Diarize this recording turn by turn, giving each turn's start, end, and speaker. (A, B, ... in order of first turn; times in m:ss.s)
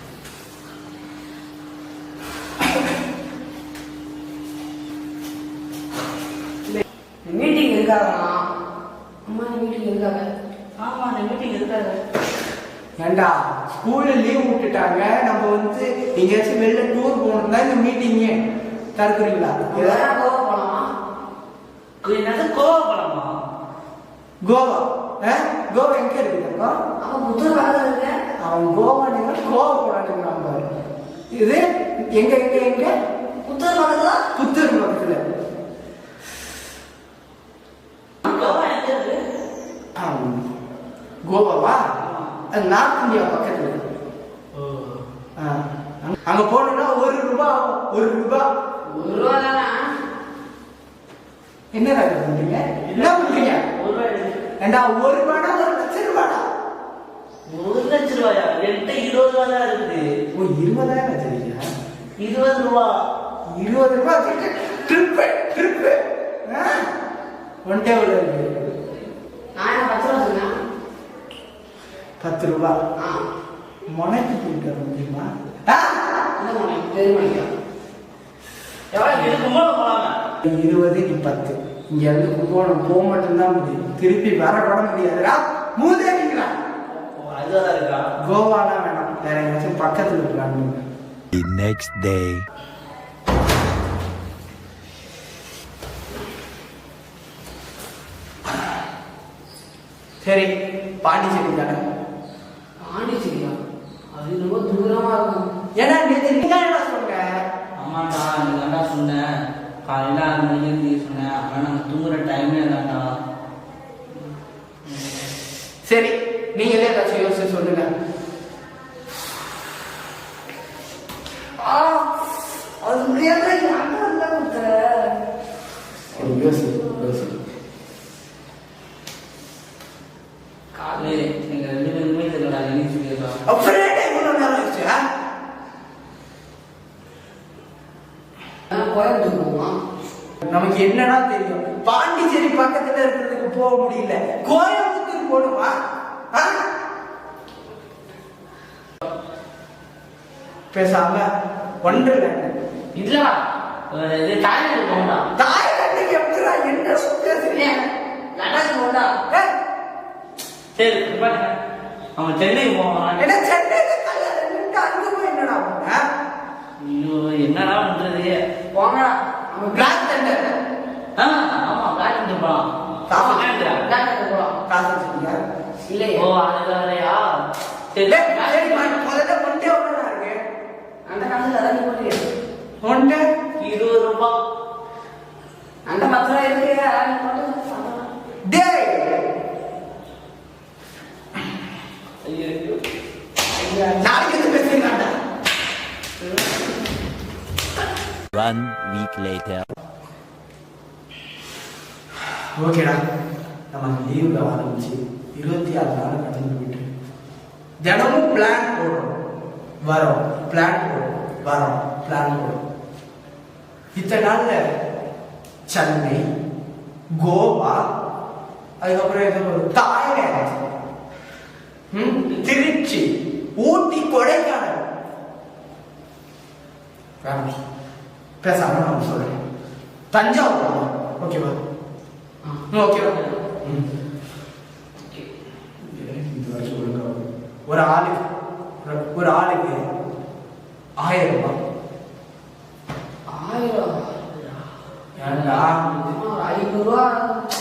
0:07.3-0:08.4 A
0:09.3-0:10.3 A
0:10.8-0:12.0 B
0:13.0-0:18.4 C
0:19.0-0:20.1 C
0:19.7-0:20.8 A
0:22.0-0:23.3 B
0:24.4-0:26.8 C
0:27.0-0:28.1 A
0:28.4-0:30.7 C
0:31.3-0:32.9 C
0:33.5-0:34.2 A
0:34.3-0:35.2 C
0:38.2-0:39.2 B
0:40.0-0:40.5 C
0:41.3-0:41.8 C
0:42.0-0:42.3 B
0:42.5-0:43.8 C
0:44.5-0:45.0 B
0:45.4-0:48.5 C
0:48.9-0:49.9 A
0:51.7-0:53.6 C
0:52.9-0:54.4 B
0:54.6-0:56.4 C
0:57.5-1:00.0 B
1:00.3-1:01.7 C
1:02.2-1:02.9 B
1:03.6-1:06.9 C
1:07.6-1:08.7 C
1:09.6-1:10.5 A
1:12.2-1:12.8 C
1:13.0-1:13.2 A
1:13.9-1:16.0 C
1:16.4-1:17.5 A
1:18.9-1:19.4 A
1:19.0-1:20.2 B
1:20.4-1:26.5 C
1:27.2-1:28.0 B
1:28.2-1:30.8 C
1:31.3-1:32.5 D
1:40.2-1:40.5 C
1:41.0-1:41.8 C
1:42.8-1:43.6 A
1:44.1-1:45.4 A
1:45.8-1:47.4 C
1:47.8-1:49.3 B
1:49.8-1:53.1 B
1:54.9-1:55.2 B
1:55.9-1:57.9 C
2:01.6-2:02.2 A
2:02.8-2:05.1 A
2:06.1-2:07.4 C
2:06.2-2:07.2 A
2:10.7-2:11.3 A
2:11.0-2:13.4 B
2:13.5-2:15.0 C
2:18.7-2:19.8 A
2:20.4-2:25.7 C
2:26.3-2:26.7 C
2:30.7-2:31.3 C
2:31.8-2:32.5 C
2:33.0-2:33.4 B
2:33.9-2:35.3 B
2:35.4-2:37.8 C
2:37.5-2:39.2 A
2:40.8-2:41.6 B
2:42.2-2:43.3 B
2:43.2-2:46.0 C
2:46.8-2:48.4 B
2:48.7-2:49.9 A
2:49.7-2:50.5 C
2:51.2-2:53.8 B
2:53.1-2:53.5 C
2:53.1-2:54.6 A
2:54.7-2:55.4 C
2:55.9-2:56.3 A
2:56.2-2:57.3 B
2:57.9-2:58.9 B
2:58.1-3:00.4 C
3:01.1-3:02.3 A
3:02.8-3:03.3 C
3:03.6-3:04.4 B
3:05.9-3:08.1 A
3:08.5-3:09.2 C
3:12.2-3:12.8 B
3:13.6-3:15.1 C
3:18.3-3:19.7 D
3:22.6-3:23.0 C
3:23.7-3:26.8 C
3:27.8-3:29.2 C
3:29.8-3:32.6 C
3:33.9-3:34.6 C
3:35.7-3:36.3 C
3:37.1-3:37.8 C
3:38.8-3:40.6 C
3:41.9-3:44.8 C
3:47.2-3:47.5 C
3:48.4-3:49.4 C
3:50.1-3:51.6 C
3:52.7-3:53.8 C
3:55.8-3:58.2 C
3:58.8-3:59.8 C
4:01.0-4:01.6 C
4:03.3-4:04.1 A
4:05.2-4:06.2 B
4:05.2-4:05.8 C
4:06.1-4:07.4 A